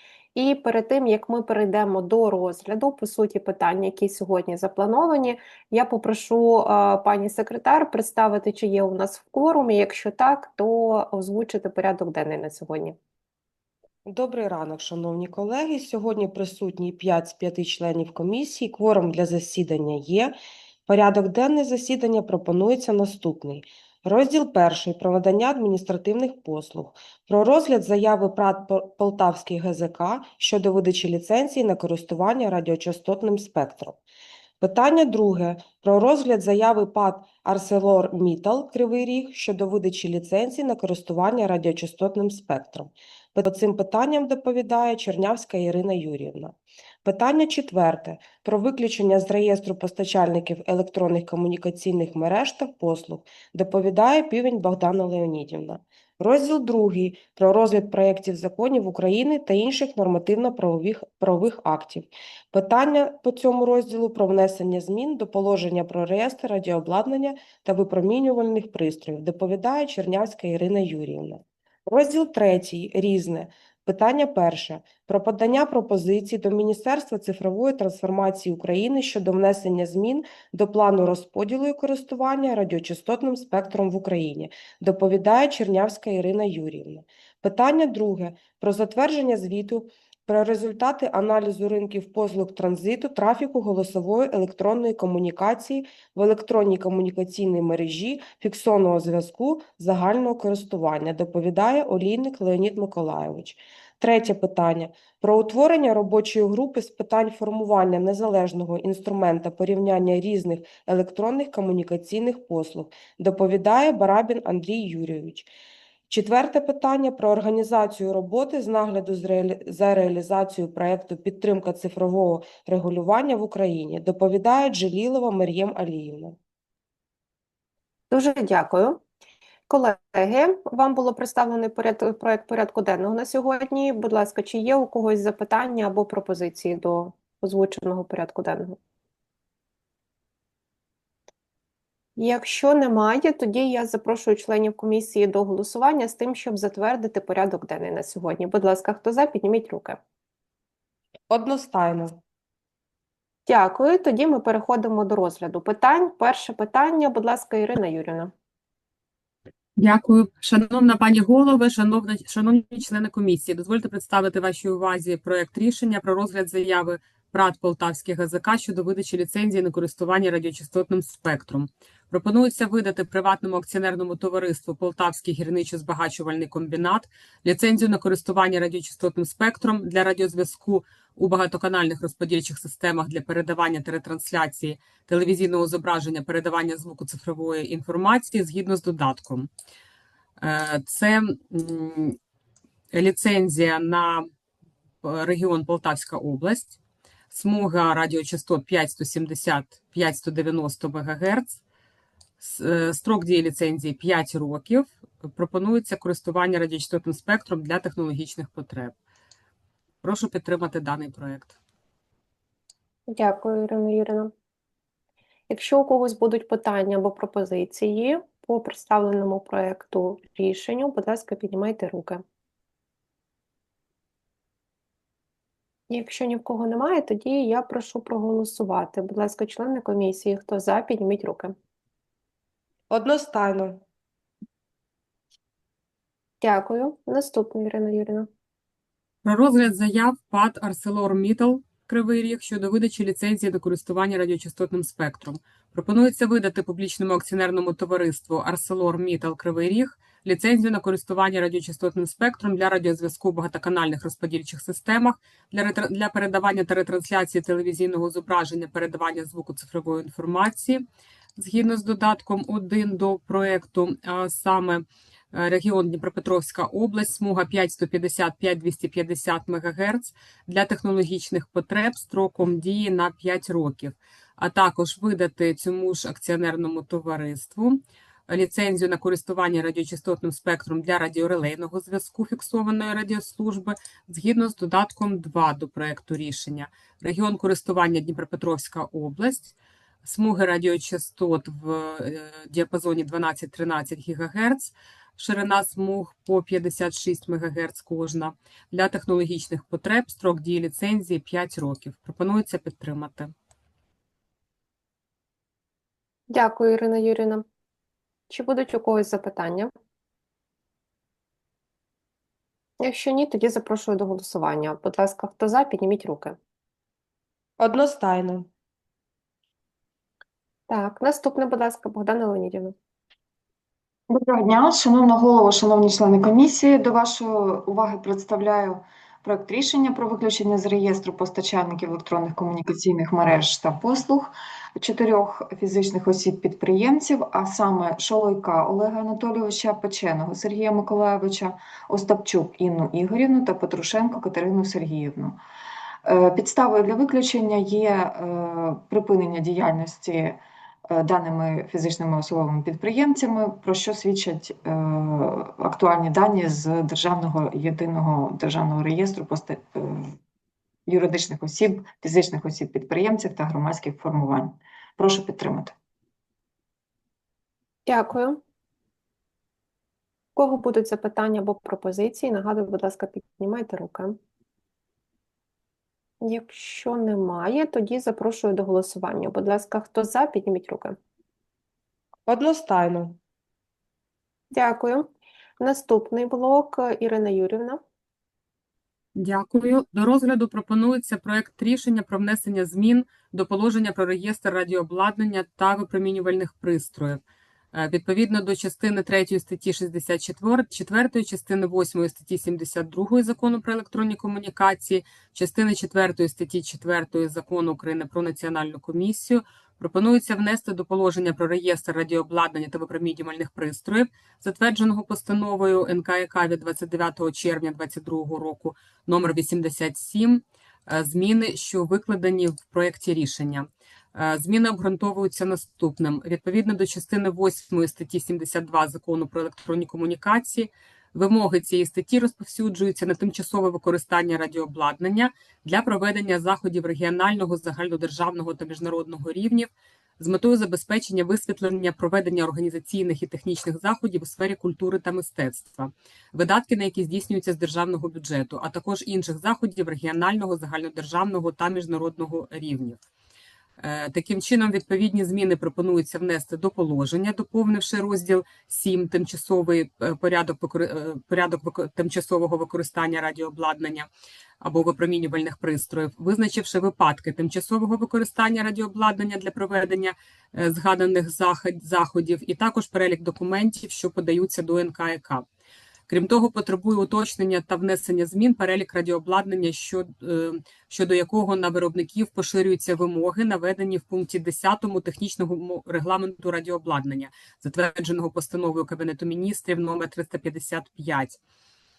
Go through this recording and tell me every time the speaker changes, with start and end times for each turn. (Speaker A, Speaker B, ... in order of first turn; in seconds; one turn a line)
Speaker A: 0.3-12.9
Speaker B: 14.1-34.0
Speaker B: 34.6-115.5
Speaker B: 116.1-126.4
Speaker A: 128.1-129.0
Speaker A: 129.7-138.8
Speaker A: 142.2-150.0
Speaker B: 151.3-152.2
Speaker A: 153.4-158.3
Speaker C: 159.8-189.5
Speaker C: 190.4-192.2
Speaker C: 192.9-194.2
Speaker C: 195.0-196.7
Speaker C: 197.3-201.6
Speaker C: 202.4-208.9
Speaker C: 210.0-211.6
Speaker A: 213.1-214.3
Speaker A: 215.5-222.2
Speaker A: 225.9-231.5
Speaker B: 232.9-233.8
Speaker A: 236.4-238.3
Speaker C: 239.2-260.8
Speaker C: 261.4-303.3
Speaker A: 306.3-307.4
Speaker A: 308.3-309.7
Speaker A: 312.8-316.4
Speaker B: 317.6-318.5
Speaker A: 320.7-322.7
Speaker D: 324.1-345.4
Speaker D: 346.1-350.4
Speaker D: 350.9-360.2
Speaker D: 360.9-365.7
Speaker A: 367.9-368.4
Speaker A: 370.4-374.2
Speaker A: 376.2-381.0
Speaker B: 382.3-383.2
Speaker A: 384.5-385.1
Speaker A: 385.6-387.8
Speaker C: 389.1-397.2
Speaker C: 397.7-453.0
Speaker C: 453.8-464.1
Speaker C: 464.6-475.4
Speaker C: 476.1-491.4